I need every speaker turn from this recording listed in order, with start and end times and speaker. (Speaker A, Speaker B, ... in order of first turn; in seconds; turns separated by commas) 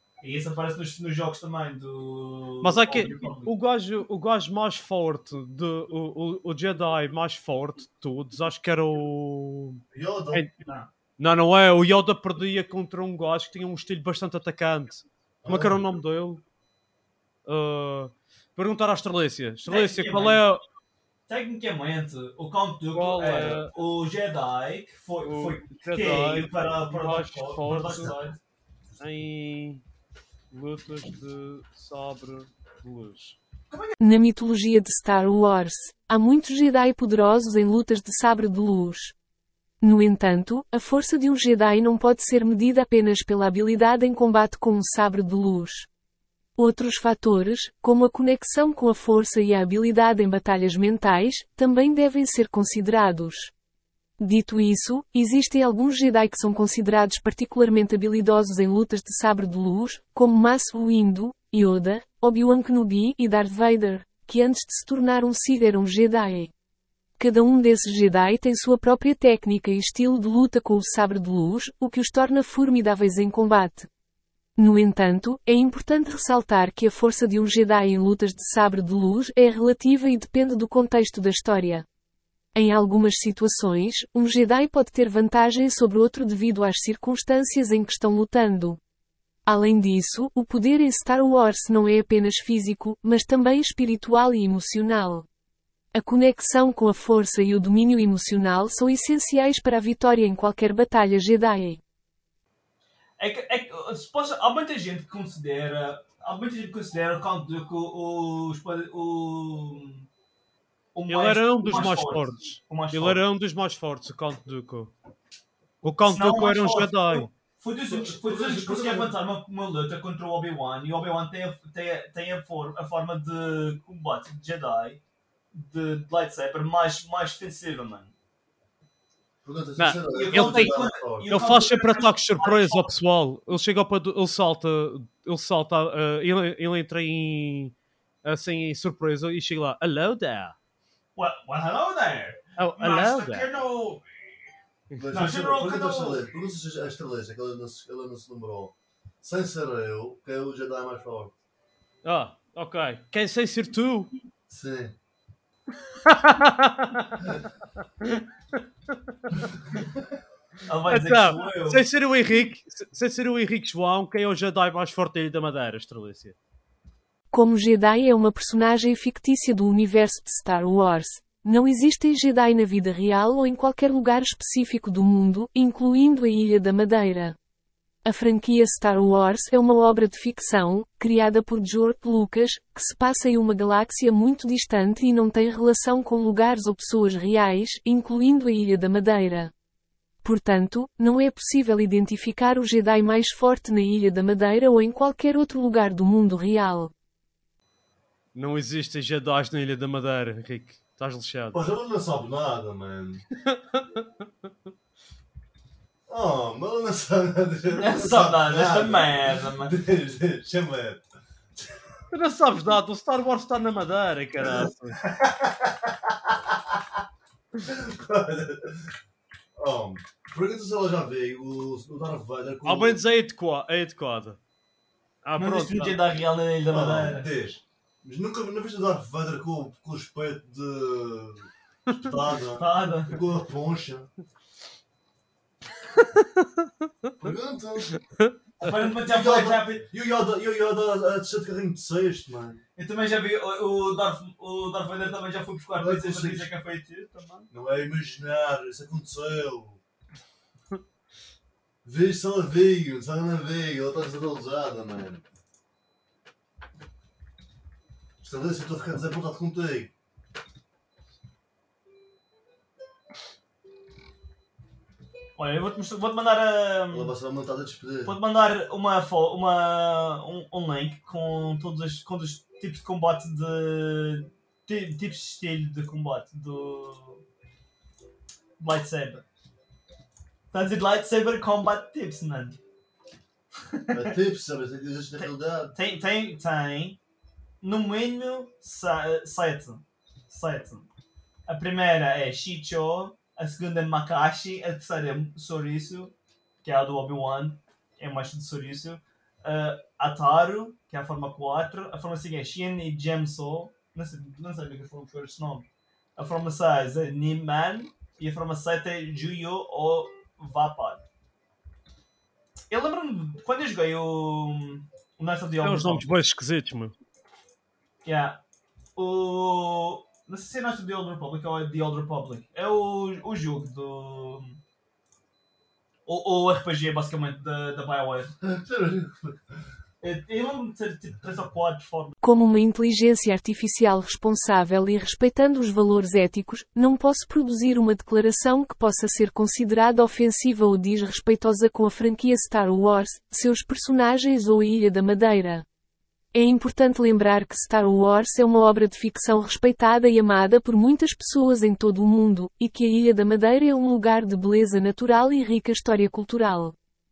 Speaker A: 0.2-3.5, Speaker B: 2.6-9.8, Speaker C: 9.9-10.5, Speaker A: 10.6-10.9, Speaker B: 11.2-16.4, Speaker C: 15.4-15.8, Speaker B: 17.5-20.6, Speaker A: 19.7-20.4, Speaker A: 21.3-28.4, Speaker B: 22.9-23.7, Speaker B: 25.2-28.2, Speaker B: 29.0-29.8, Speaker B: 30.5-33.4, Speaker A: 33.7-34.0, Speaker D: 34.0-39.1, Speaker D: 39.8-45.9, Speaker D: 46.6-53.5, Speaker D: 54.2-66.5, Speaker D: 67.2-73.9, Speaker D: 74.6-81.8, Speaker D: 82.5-88.8, Speaker D: 89.5-95.3, Speaker D: 95.9-101.8, Speaker A: 103.2-110.1, Speaker A: 110.9-113.2, Speaker B: 111.1-114.9, Speaker B: 115.8-117.3, Speaker A: 116.0-125.0, Speaker C: 117.9-119.2, Speaker A: 125.5-128.1, Speaker C: 129.4-131.3, Speaker B: 129.8-140.6, Speaker A: 130.1-132.9, Speaker A: 141.2-144.1, Speaker B: 142.6-143.5, Speaker C: 145.0-151.3, Speaker A: 145.1-146.2, Speaker B: 152.0-154.1, Speaker C: 154.5-155.0, Speaker B: 156.0-157.2, Speaker A: 160.7-161.8, Speaker B: 160.9-166.3, Speaker D: 167.3-177.3, Speaker D: 178.1-189.5, Speaker D: 190.2-196.9, Speaker B: 198.3-201.6, Speaker C: 201.5-203.2, Speaker B: 203.5-204.1, Speaker C: 206.1-211.0, Speaker A: 207.8-209.7, Speaker B: 212.1-215.0, Speaker C: 214.4-216.7, Speaker C: 217.6-218.9, Speaker C: 219.6-223.0, Speaker B: 222.7-224.4, Speaker B: 225.2-226.0, Speaker A: 225.4-227.3, Speaker C: 226.7-234.1, Speaker A: 232.6-233.2, Speaker C: 237.2-238.0, Speaker A: 238.6-239.8, Speaker C: 238.8-242.6, Speaker A: 242.8-247.5, Speaker C: 245.8-246.5, Speaker C: 247.5-249.8, Speaker C: 251.8-255.2, Speaker C: 258.2-259.9, Speaker A: 265.4-267.1, Speaker C: 266.9-268.2, Speaker A: 268.1-277.2, Speaker A: 278.6-279.2, Speaker A: 280.5-282.6, Speaker A: 283.7-284.1, Speaker C: 283.9-285.8, Speaker A: 285.2-287.0, Speaker A: 287.6-290.9, Speaker A: 291.5-311.0, Speaker A: 312.7-316.1, Speaker B: 315.6-316.9, Speaker A: 318.0-318.4, Speaker A: 319.0-324.6, Speaker A: 326.1-328.3, Speaker C: 328.4-329.6, Speaker A: 330.0-332.1, Speaker D: 332.2-345.6, Speaker D: 346.3-356.7